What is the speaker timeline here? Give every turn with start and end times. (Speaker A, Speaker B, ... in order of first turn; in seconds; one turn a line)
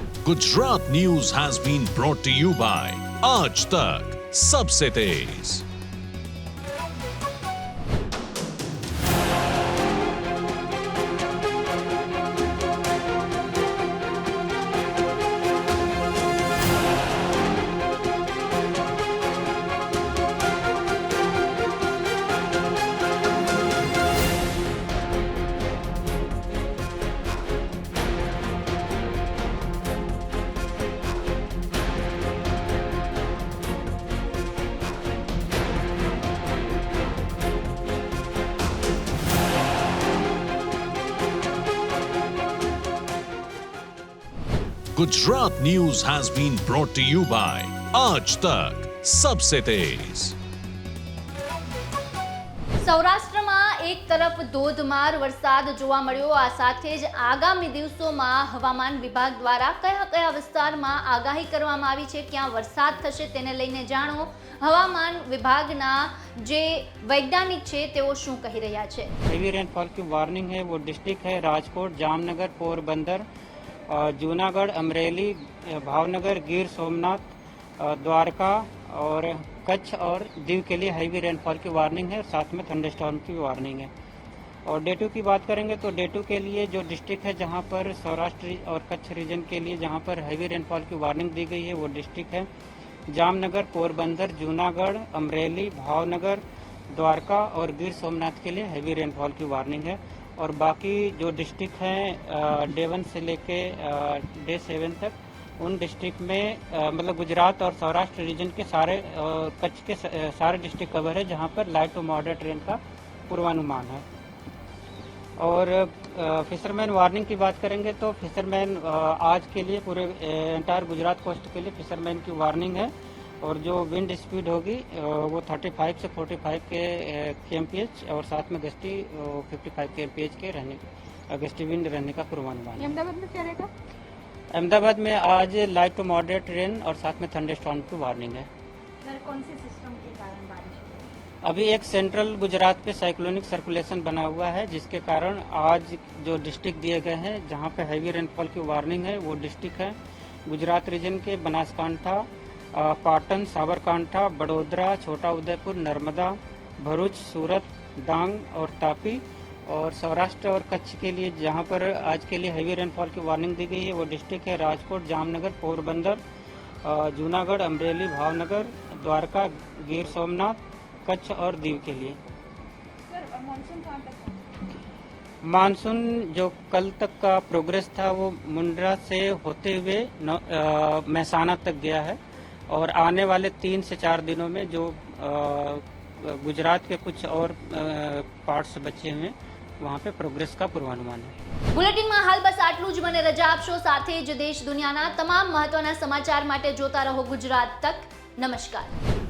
Speaker A: 0.2-5.6
Speaker A: 44.9-50.3
Speaker B: 52.8-69.1
Speaker C: 69.2-73.2
Speaker C: 73.9-83.9
Speaker C: 84.7-92.5
Speaker C: 93.1-114.0
Speaker C: 115.4-133.0
Speaker D: 132.8-133.7
Speaker C: 134.5-138.5
Speaker D: 139.0-141.1
Speaker C: 141.4-149.9
Speaker C: 150.5-166.2
Speaker C: 166.8-172.2
Speaker D: 173.1-174.4
Speaker C: 175.4-182.2
Speaker C: 182.7-191.3
Speaker B: 191.7-198.9